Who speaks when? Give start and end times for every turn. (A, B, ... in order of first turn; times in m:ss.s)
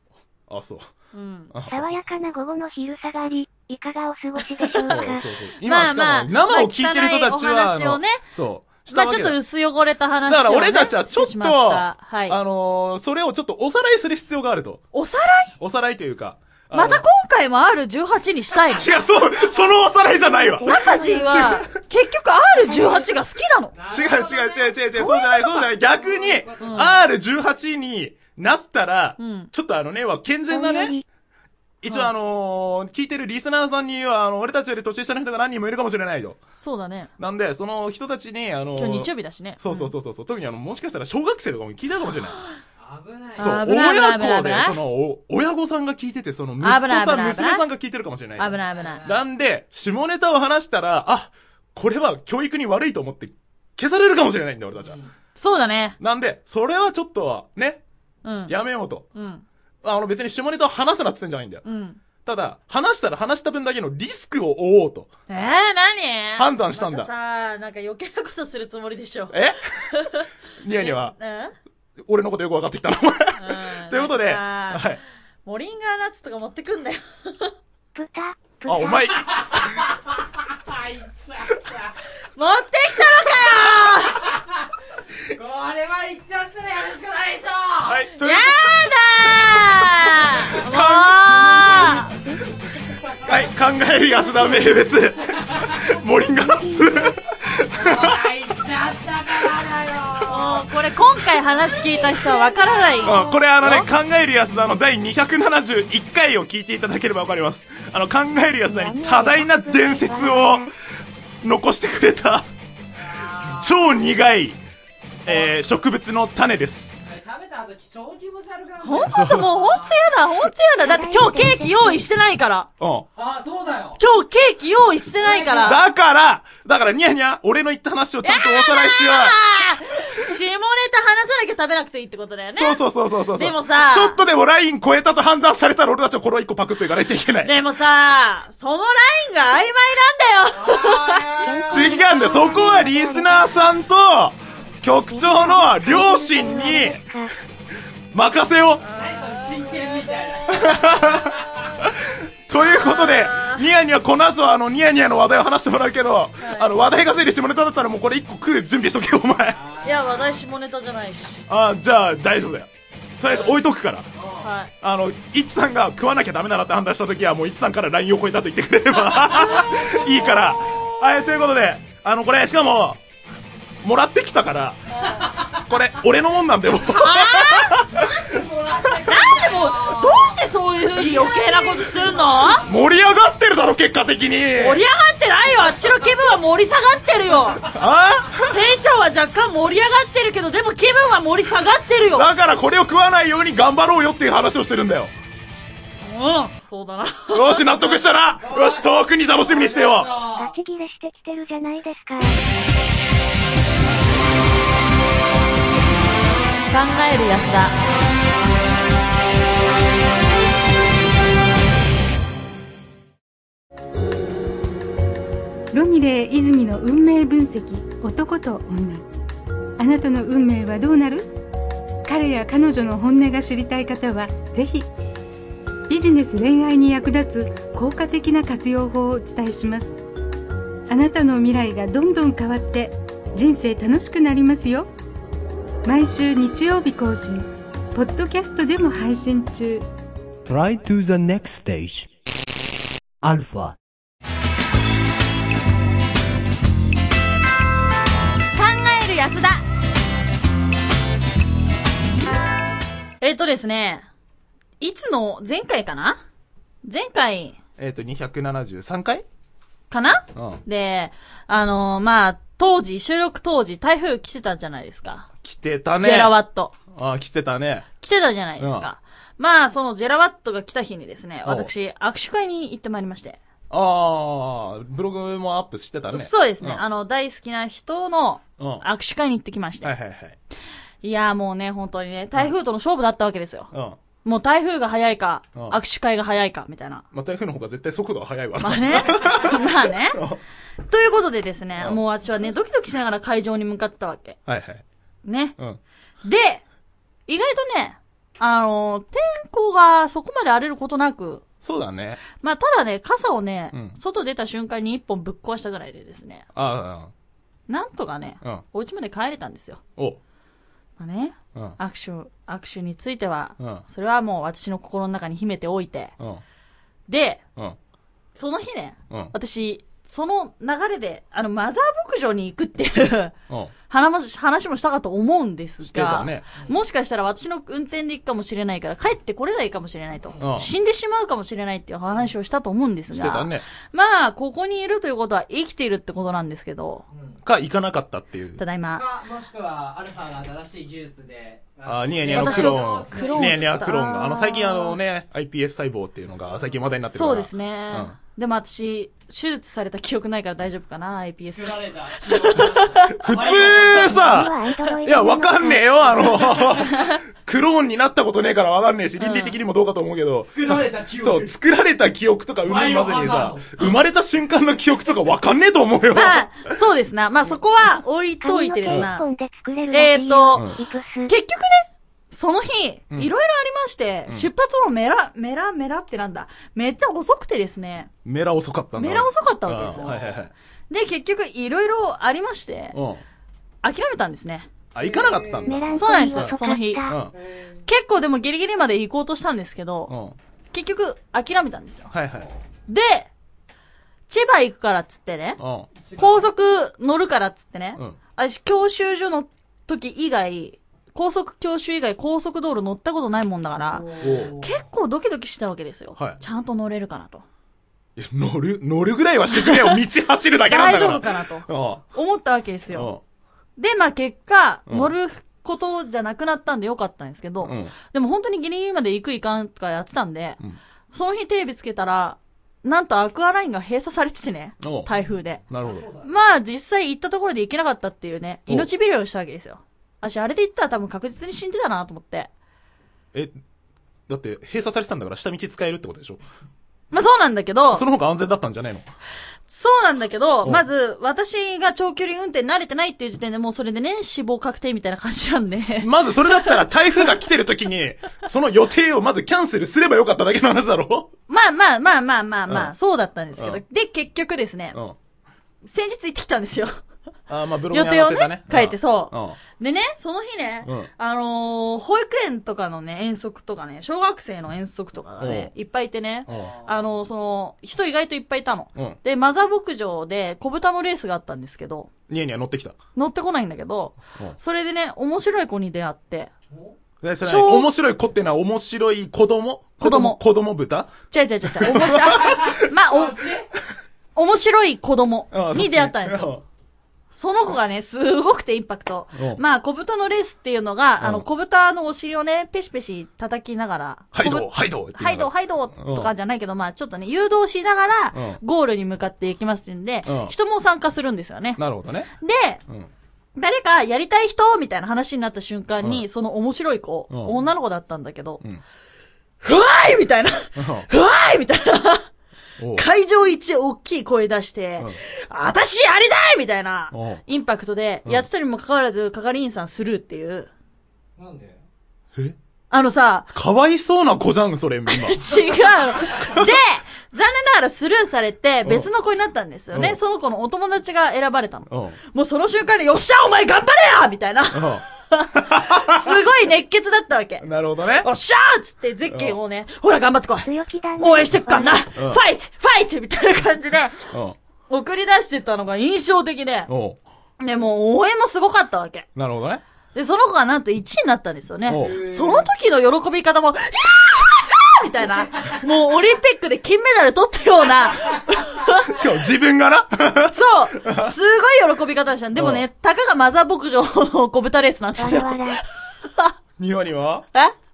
0:00.5-0:00.9 A
0:01.1-0:01.5 B
0:01.5-0:01.9 A
0:01.7-0:05.2 C
0:04.4-0:04.9 B
0:04.9-0:09.4 A
0:05.6-0:08.2 B
0:08.9-0:12.4 B
0:10.2-0:14.8 A
0:14.9-0:15.5 B
0:15.6-0:17.0 A
0:16.7-0:18.9 B
0:18.7-0:21.6 A
0:19.2-0:19.7 D
0:20.3-0:21.6 C
0:20.6-0:23.7 B
0:22.7-0:23.0 C
0:23.7-0:24.8 D
0:23.9-0:30.9 A
0:24.9-0:25.7 B
0:25.8-0:27.0 D
0:26.6-0:26.9 B
0:29.2-0:29.5 B
0:30.5-0:31.0 C
0:31.8-0:36.4 A
0:36.6-0:37.1 B
0:37.2-0:42.4 A
0:38.8-0:39.9 B
0:42.8-0:43.5 D
0:43.4-0:44.8 B
0:43.4-0:55.0 A
0:46.6-0:47.6 B
0:48.4-0:49.0 B
0:48.5-0:49.2 D
0:54.8-0:55.1 D
0:55.4-0:56.0 B
0:56.0-0:57.8 A
0:58.2-0:58.5 B
0:58.5-0:59.1 A
0:59.1-0:59.4 B
0:59.8-1:01.6 A
1:01.6-1:02.0 B
1:02.2-1:05.1 A
1:05.3-1:09.4 B
1:06.4-1:07.1 A
1:09.3-1:09.8 A
1:09.9-1:11.5 B
1:10.6-1:11.1 A
1:12.0-1:15.0 A
1:13.4-1:14.9 B
1:15.4-1:17.5 B
1:17.9-1:19.0 C
1:18.6-1:19.6 A
1:19.3-1:19.7 D
1:20.6-1:21.9 D
1:22.4-1:24.2 B
1:25.3-1:28.0 D
1:27.8-1:32.0 A
1:28.2-1:32.1 B
1:33.2-1:38.3 A
1:35.4-1:35.7 D
1:36.5-1:37.0 C
1:37.7-1:40.6 D
1:40.2-1:43.9 B
1:43.0-1:50.7 A
1:48.6-1:50.7 C
1:51.4-1:52.5 A
1:53.0-1:53.9 D
1:53.4-1:54.6 A
1:55.2-1:57.0 A
1:57.0-2:00.0 D
1:58.8-2:02.7 B
1:59.1-1:59.5 A
2:00.8-2:02.0 C
2:02.8-2:03.0 A
2:03.2-2:04.0 D
2:04.0-2:05.8 B
2:05.2-2:05.8 D
2:05.6-2:09.4 A
2:08.2-2:12.8 B
2:12.5-2:17.6 A
2:13.3-2:14.2 B
2:17.4-2:21.2 B
2:20.5-2:22.0 D
2:21.4-2:23.5 C
2:21.7-2:27.0 A
2:25.1-2:27.3 C
2:28.1-2:28.8 A
2:28.8-2:30.2 B
2:28.9-2:30.6 D
2:30.5-2:39.6 A
2:32.5-2:33.6 B
2:36.4-2:36.7 B
2:39.5-2:40.3 D
2:39.8-2:41.4 B
2:41.5-2:44.1 A
2:43.2-2:43.5 D
2:44.2-2:44.5 D
2:44.4-2:44.7 B
2:44.8-2:53.0 A
2:49.6-2:49.9 D
2:53.8-2:54.8 A
2:55.0-2:55.3 B
2:55.2-2:55.6 D
2:55.5-2:58.2 A
2:56.9-2:57.8 B
2:57.9-3:02.8 D
2:59.0-3:02.6 B
3:02.6-3:04.8 A
3:04.6-3:07.7 B
3:07.7-3:08.6 A
3:08.5-3:12.3 B
3:12.1-3:15.1 A
3:16.0-3:17.7 B
3:17.3-3:20.2 A
3:18.4-3:20.6 D
3:20.2-3:22.4 C
3:26.7-3:27.7 B
3:35.7-3:39.0 E
3:39.8-3:41.3 E
3:42.0-3:44.9 E
3:45.9-3:49.9 E
3:50.9-3:54.9 E
3:55.8-3:59.8 E
4:00.4-4:02.1 F
4:03.2-4:03.8 F
4:08.5-4:09.6 B
4:13.2-4:14.0 B
4:14.8-4:16.2 B
4:16.8-4:17.6 B
4:17.8-4:19.2 A
4:19.9-4:25.3 B
4:20.3-4:20.6 A
4:25.4-4:26.4 A
4:26.0-4:26.7 B
4:26.9-4:27.9 A
4:28.0-4:33.4 B
4:28.6-4:28.9 A
4:31.4-4:31.7 A
4:33.7-4:36.8 A
4:36.1-4:39.9 B
4:38.6-4:38.8 A
4:39.8-4:40.4 A
4:41.0-4:43.7 B
4:43.7-4:44.0 A
4:44.2-4:47.0 B
4:47.1-4:50.4 A
4:48.6-4:50.2 B
4:50.8-4:54.4 B
4:54.4-4:54.8 A
4:55.2-4:55.6 B
4:56.2-4:56.6 B
4:57.3-5:01.4 B
5:01.6-5:02.2 A
5:02.4-5:06.4 B
5:03.7-5:04.0 A
5:06.5-5:07.1 A
5:07.7-5:09.8 B
5:11.0-5:16.1 B
5:13.6-5:13.8 A
5:17.1-5:17.4 B
5:18.3-5:23.3 B
5:23.9-5:37.0 B
5:25.8-5:26.5 A
5:30.3-5:30.5 D
5:30.4-5:30.7 A
5:33.1-5:33.6 A
5:37.1-5:37.4 D
5:37.4-5:38.6 A
5:38.6-5:39.0 B
5:38.9-5:43.7 D
5:41.8-5:48.2 A
5:42.3-5:45.0 B
5:46.4-5:46.8 D
5:47.1-5:53.1 B
5:51.5-5:54.4 D
5:53.1-6:06.5 A
5:53.5-5:55.8 C
5:56.1-5:56.9 D
5:56.9-5:57.2 B
5:59.2-5:59.6 B
6:00.5-6:01.5 D
6:02.6-6:03.8 D
6:06.1-6:09.2 B
6:08.4-6:11.3 C
6:09.9-6:10.6 B
6:10.5-6:10.8 A
6:11.2-6:18.1 B
6:18.2-6:20.5 A
6:19.0-6:20.1 B
6:19.9-6:20.4 D
6:20.9-6:23.0 B
6:22.9-6:23.2 A
6:23.8-6:24.7 B
6:24.9-6:27.3 A
6:25.0-6:25.8 D
6:25.6-6:27.2 C
6:25.9-6:27.0 B
6:27.3-6:27.8 D
6:27.9-6:30.1 B
6:30.1-6:30.4 A
6:30.7-6:32.1 B
6:32.1-6:32.5 A
6:32.9-6:33.3 B
6:34.3-6:35.6 B
6:35.6-6:35.9 A
6:36.0-6:36.5 D
6:36.2-6:47.4 B
6:43.9-6:44.8 D
6:44.2-6:44.6 A
6:48.2-6:52.0 A
6:49.5-6:50.0 B
6:50.6-6:53.1 B
6:52.9-6:53.2 A
6:53.8-7:00.6 B
6:57.6-6:57.9 A
7:01.1-7:05.6 B
7:04.8-7:05.1 A
7:05.7-7:06.5 D
7:05.7-7:06.1 A
7:06.2-7:12.5 B
7:13.3-7:13.6 A
7:14.3-7:16.4 A
7:17.1-7:18.0 B
7:17.9-7:19.1 A
7:19.7-7:26.9 B
7:26.0-7:31.3 A
7:31.5-7:35.0 B
7:33.6-7:33.8 A
7:35.8-7:37.0 B
7:37.5-7:39.6 A
7:37.9-7:52.1 B
7:40.8-7:41.1 A
7:45.4-7:45.7 A
7:46.5-7:46.7 A
7:46.5-7:47.1 D
7:52.3-7:53.0 A
7:53.1-7:56.5 B
7:56.7-7:57.0 D
7:57.2-8:02.8 A
7:57.4-7:57.9 B
8:00.0-8:00.4 B
8:01.3-8:03.5 B
8:02.3-8:03.7 D
8:04.3-8:06.5 B
8:05.5-8:06.6 A
8:07.3-8:21.8 B
8:09.3-8:09.6 A
8:11.2-8:11.4 A
8:14.3-8:16.3 A
8:18.3-8:18.6 A
8:20.2-8:20.5 A
8:21.8-8:22.3 A
8:22.4-8:22.8 B
8:23.6-8:28.6 B
8:27.3-8:27.6 A
8:29.6-8:32.2 B
8:30.8-8:31.1 A
8:32.8-8:33.0 A
8:32.9-8:40.7 B
8:37.1-8:37.4 A
8:41.4-8:41.8 D
8:42.9-8:43.5 B
8:43.5-8:45.4 A
8:45.1-8:57.6 B
8:46.4-8:46.7 A
8:48.8-8:49.1 A
8:49.9-8:50.2 A
8:51.9-8:52.2 A
8:54.7-8:56.4 A
8:57.6-8:58.3 A
8:58.2-9:04.2 B
8:59.3-8:59.6 A
9:00.6-9:02.1 C
9:02.2-9:02.4 A
9:04.3-9:04.6 A
9:04.9-9:06.9 B
9:06.9-9:07.2 A
9:07.6-9:09.3 B
9:09.4-9:09.8 A
9:10.1-9:19.2 B
9:11.9-9:12.2 A
9:11.9-9:12.7 D
9:19.0-9:21.3 A
9:20.5-9:26.5 B
9:22.5-9:22.8 A
9:25.2-9:25.8 C
9:26.8-9:27.5 A